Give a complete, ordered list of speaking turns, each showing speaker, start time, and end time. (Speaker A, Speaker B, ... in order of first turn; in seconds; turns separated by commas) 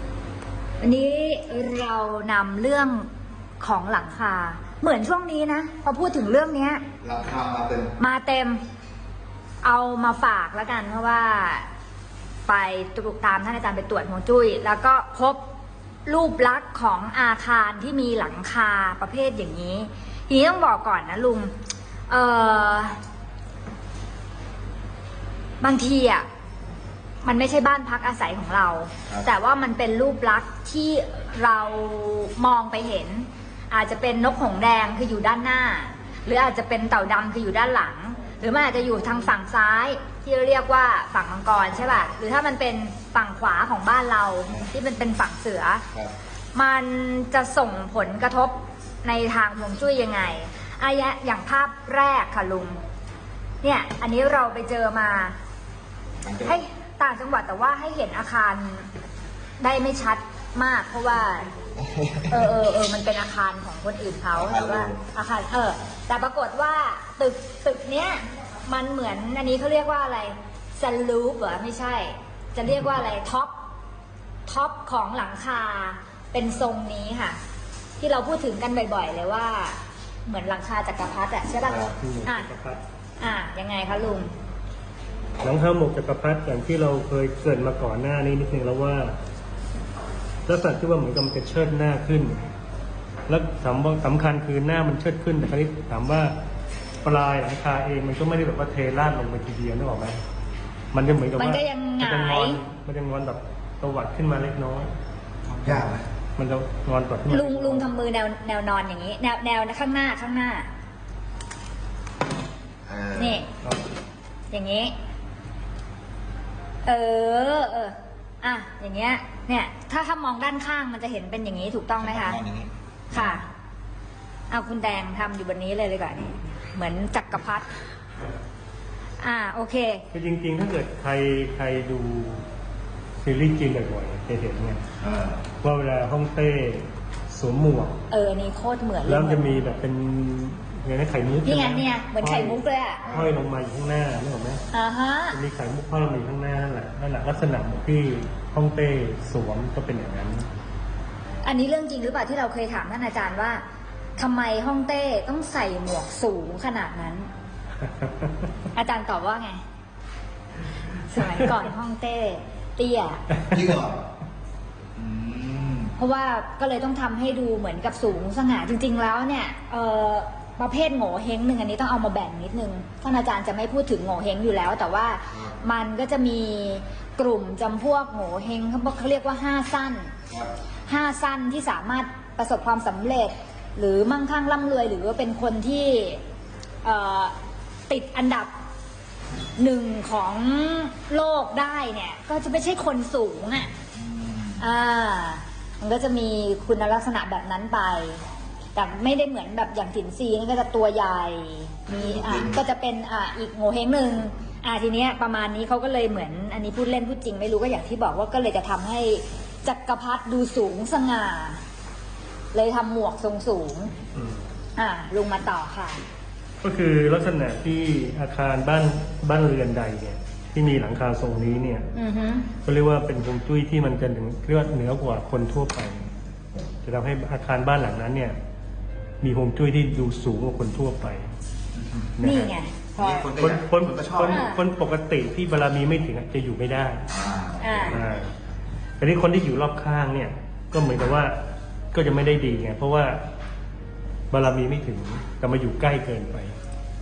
Speaker A: 0.8-3.1, Speaker A: 3.6-6.8, Speaker B: 7.0-7.9, Speaker A: 8.0-8.6, Speaker A: 9.6-11.7, Speaker A: 12.5-15.4, Speaker A: 16.1-21.5, Speaker A: 22.1-23.0, Speaker A: 25.6-26.3, Speaker A: 27.2-45.8, Speaker A: 46.5-52.8, Speaker A: 53.6-55.4, Speaker B: 56.2-56.6, Speaker A: 56.4-58.9, Speaker A: 59.6-61.5, Speaker B: 61.8-62.5, Speaker A: 62.3-73.5, Speaker B: 64.3-65.1, Speaker A: 74.5-77.4, Speaker A: 78.0-82.5, Speaker C: 82.0-82.8, Speaker A: 83.2-84.3, Speaker C: 85.4-89.2, Speaker C: 90.5-92.4, Speaker C: 93.3-96.3, Speaker C: 97.0-100.2, Speaker C: 100.9-104.9, Speaker A: 101.3-102.6, Speaker B: 105.4-106.0, Speaker C: 105.7-107.9, Speaker A: 107.3-110.7, Speaker B: 112.8-113.4, Speaker A: 113.2-113.5, Speaker A: 114.5-114.9, Speaker A: 116.8-122.4, Speaker B: 122.0-123.4, Speaker A: 123.1-123.5, Speaker A: 124.5-127.7, Speaker A: 129.2-130.1, Speaker C: 130.1-132.4, Speaker C: 133.2-134.8, Speaker B: 135.0-135.4, Speaker C: 135.6-138.0, Speaker A: 138.1-139.6, Speaker C: 139.1-144.6, Speaker A: 141.4-143.0, Speaker B: 143.0-143.4, Speaker A: 144.7-145.4, Speaker C: 145.3-150.5, Speaker A: 151.4-153.6, Speaker A: 154.2-157.3, Speaker C: 158.0-158.3, Speaker A: 158.7-159.6, Speaker A: 160.9-163.2, Speaker C: 161.2-161.5, Speaker C: 163.3-163.7, Speaker B: 163.5-164.1, Speaker B: 164.9-165.9, Speaker A: 166.0-180.1, Speaker A: 180.9-186.2, Speaker A: 186.8-187.3, Speaker A: 187.9-188.5, Speaker A: 189.6-193.7, Speaker B: 193.9-194.7, Speaker A: 194.6-211.6, Speaker B: 201.9-202.6, Speaker A: 212.5-213.9, Speaker C: 214.1-214.4, Speaker A: 214.8-216.0, Speaker C: 216.6-221.9, Speaker A: 221.9-222.5, Speaker C: 222.6-226.1, Speaker C: 226.8-228.4, Speaker C: 229.2-231.3, Speaker B: 231.7-232.1, Speaker C: 232.2-232.5, Speaker A: 232.2-233.3, Speaker B: 233.0-234.5, Speaker C: 233.3-237.1, Speaker A: 234.3-234.6, Speaker B: 237.1-238.2, Speaker A: 237.6-238.0, Speaker C: 237.9-238.3, Speaker C: 239.0-241.4, Speaker C: 241.9-243.2, Speaker C: 244.3-246.6